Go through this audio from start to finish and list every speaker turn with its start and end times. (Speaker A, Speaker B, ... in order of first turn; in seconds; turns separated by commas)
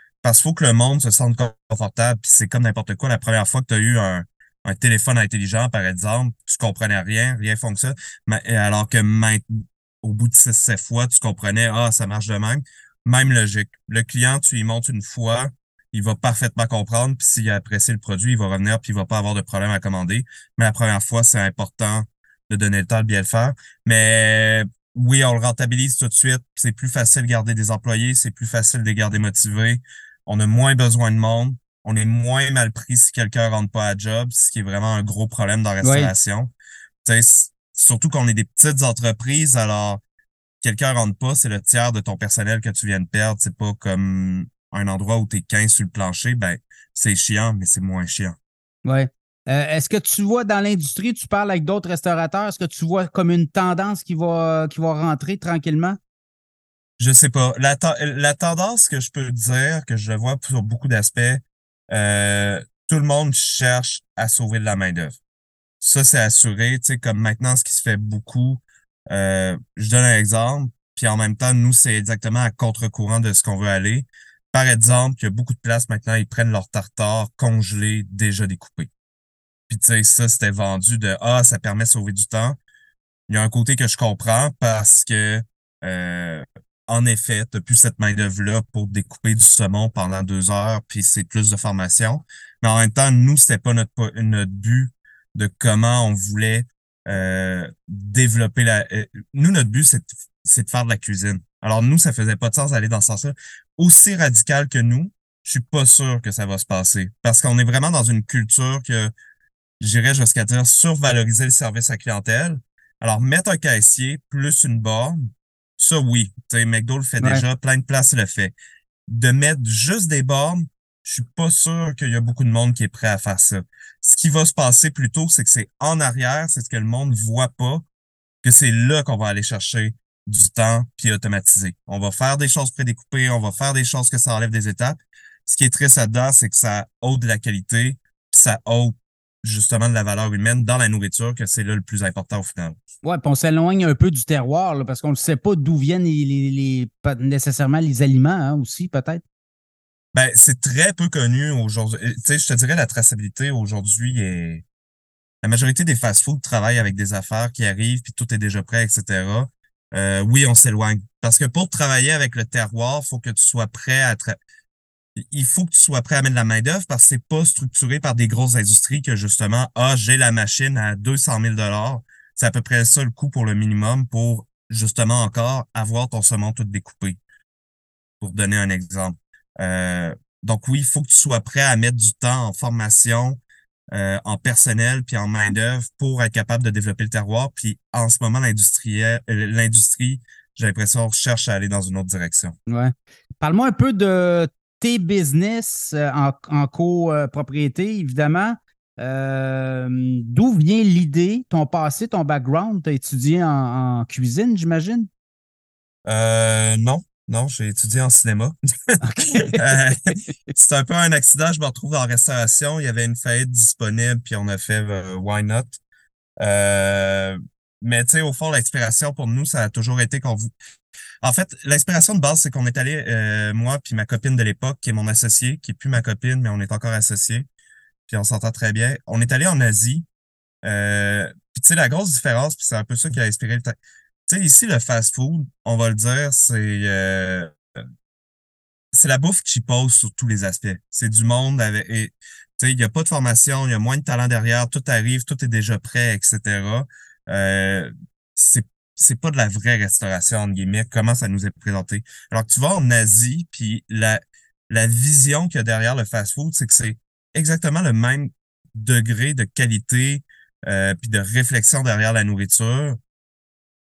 Speaker A: 0.2-36.5, Speaker B: 35.8-36.1, Speaker A: 37.0-40.0, Speaker A: 40.6-48.4, Speaker B: 48.9-56.0, Speaker A: 57.0-65.2, Speaker A: 65.8-78.9, Speaker A: 79.7-82.6, Speaker A: 83.3-109.1, Speaker A: 109.8-115.2, Speaker A: 115.8-118.5, Speaker A: 119.1-127.8, Speaker A: 128.4-142.8, Speaker B: 143.0-149.2, Speaker A: 150.1-154.7, Speaker A: 155.4-164.4, Speaker A: 165.2-177.2, Speaker A: 178.2-183.4, Speaker A: 183.9-192.6, Speaker B: 192.7-205.1, Speaker A: 206.1-209.0, Speaker B: 209.0-209.6, Speaker A: 209.5-210.0, Speaker A: 210.5-215.8, Speaker A: 216.4-220.5, Speaker A: 221.2-227.5, Speaker A: 228.1-230.1, Speaker A: 230.6-233.8, Speaker A: 234.3-237.5, Speaker A: 238.9-263.0